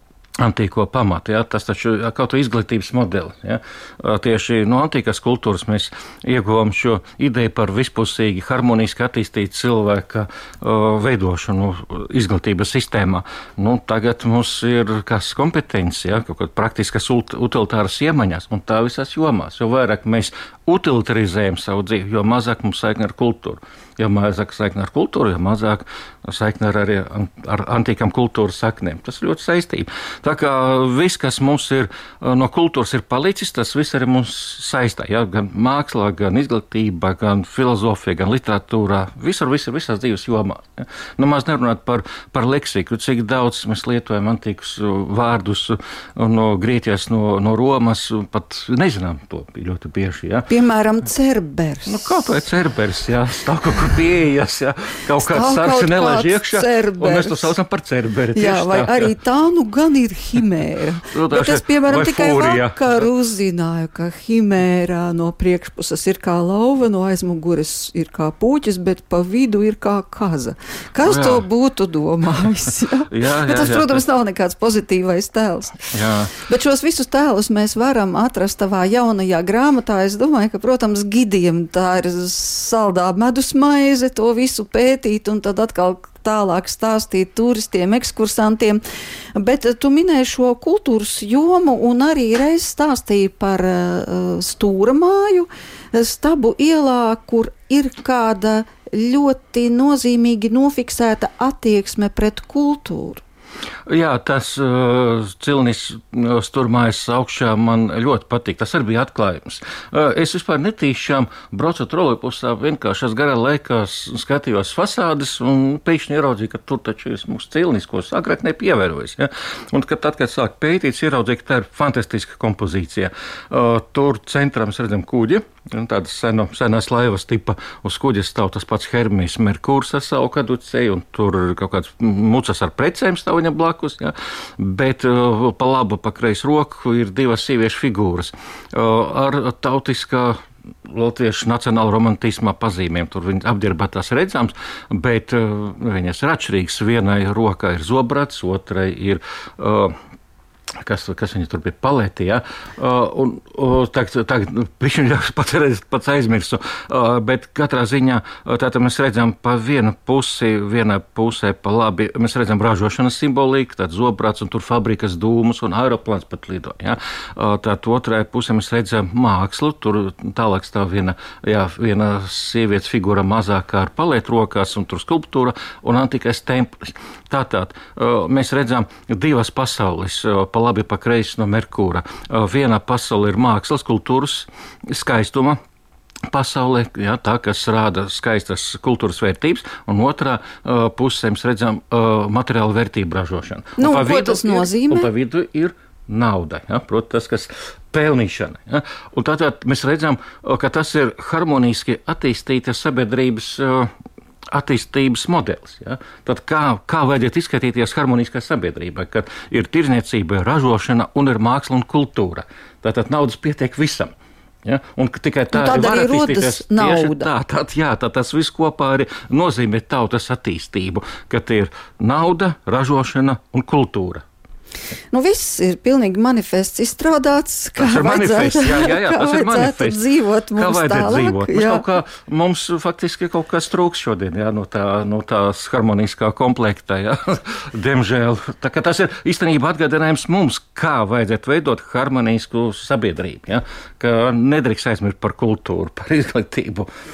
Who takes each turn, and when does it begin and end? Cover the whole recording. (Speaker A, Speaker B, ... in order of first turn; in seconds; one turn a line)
Speaker A: 0.4-50.5
Speaker B: 50.5-52.2
Speaker A: 51.9-59.1
Speaker B: 55.2-57.5
Speaker B: 58.3-88.8
Speaker A: 61.1-63.1
Speaker A: 71.0-71.5
Speaker A: 73.1-74.0
Speaker A: 75.9-76.3
Speaker B: 89.3-103.2
Speaker A: 103.9-150.0
Speaker A: 150.7-185.6
Speaker A: 186.3-203.9
Speaker B: 193.8-195.1
Speaker A: 204.5-214.1
Speaker A: 214.6-224.2
Speaker B: 215.5-217.3
Speaker B: 225.1-231.8
Speaker A: 227.8-230.0
Speaker A: 230.6-246.9